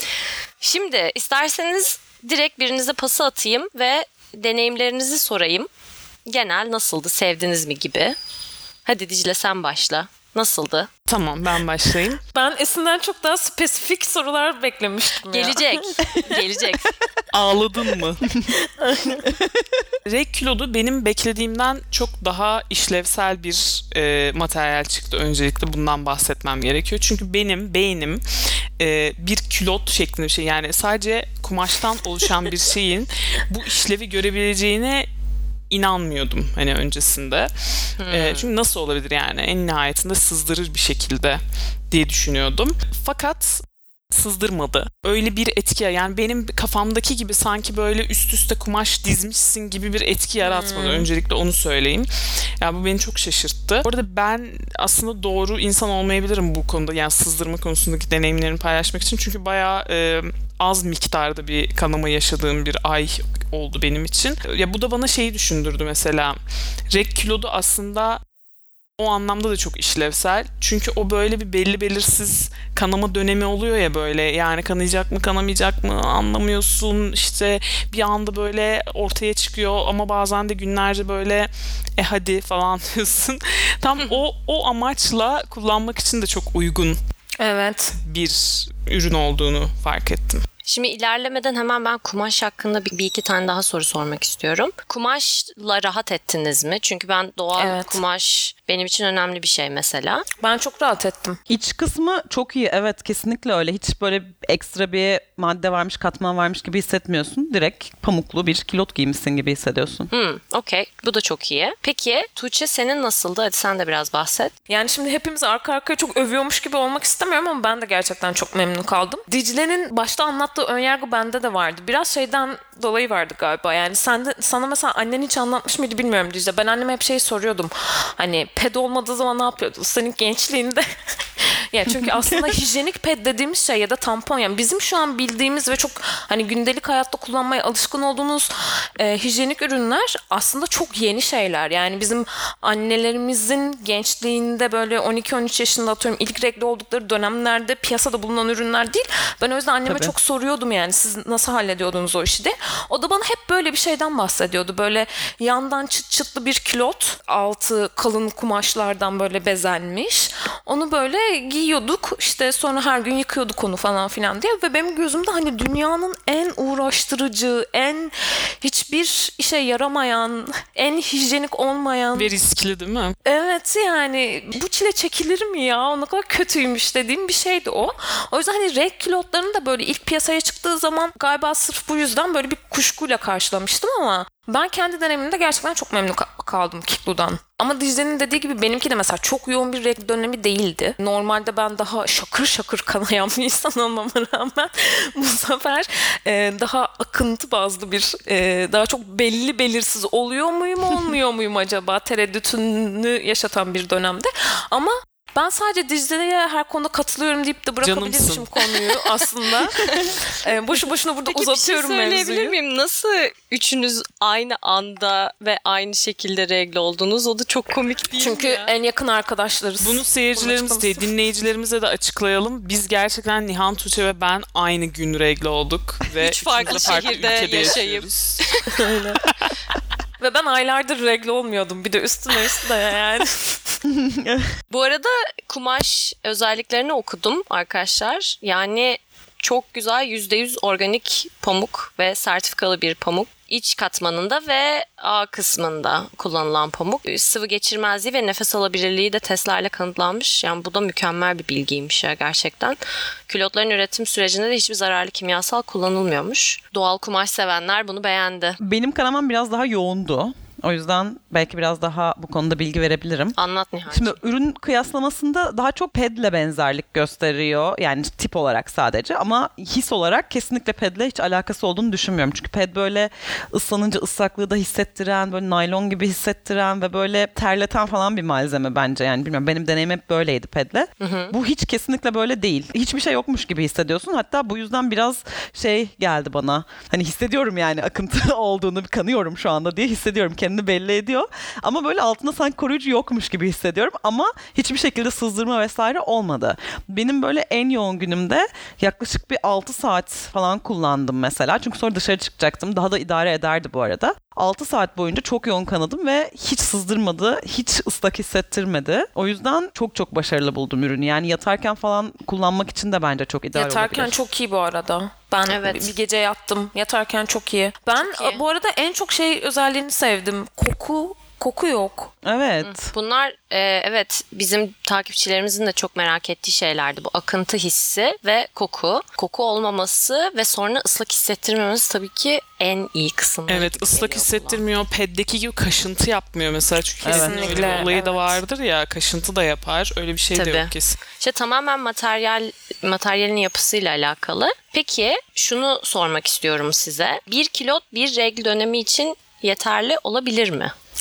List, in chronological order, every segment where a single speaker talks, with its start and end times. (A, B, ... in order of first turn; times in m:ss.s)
0:00.6-0:05.7 A
0:06.2-0:08.2 A
0:08.8-0:10.9 A
0:11.1-0:12.2 B
0:12.3-0:16.0 C
0:15.3-0:16.9 A
0:17.3-0:18.3 B
0:18.5-0:19.2 C
0:19.2-0:19.8 D
0:20.0-0:28.2 B
0:28.8-0:35.1 B
0:35.7-0:52.1 B
0:38.0-0:38.5 A
0:50.4-0:51.1 C
0:52.6-1:06.4 B
1:06.9-1:08.2 B
1:09.0-1:27.0 B
1:27.4-1:27.9 C
1:28.0-1:30.4 B
1:30.6-1:40.2 A
1:37.6-1:38.0 C
1:40.4-1:41.4 C
1:41.5-1:50.1 D
1:50.1-1:54.5 A
1:54.7-2:10.8 C
2:11.4-2:52.3 C
2:29.8-2:30.1 D
2:52.1-2:53.1 B
2:53.2-3:32.6 C
3:27.8-3:28.5 B
3:29.8-3:30.2 A
3:31.3-3:38.7 A
3:38.2-3:41.0 C
3:39.8-3:48.5 B
3:46.2-3:48.8 A
3:46.7-3:47.1 C
3:48.8-3:49.2 C
3:50.2-3:53.8 C
3:53.8-3:54.5 D
3:54.7-4:18.6 A
4:18.6-4:23.4 D
4:23.4-4:24.2 A
4:23.9-5:14.2 D
4:41.0-4:41.3 A
5:13.5-5:22.1 C
5:15.5-5:15.9 A
5:18.0-5:18.4 A
5:22.2-5:22.9 D
5:22.6-5:34.6 A
5:33.5-5:41.0 B
5:37.0-5:37.6 D
5:37.1-5:38.4 C
5:37.5-5:37.8 A
5:40.3-5:50.7 A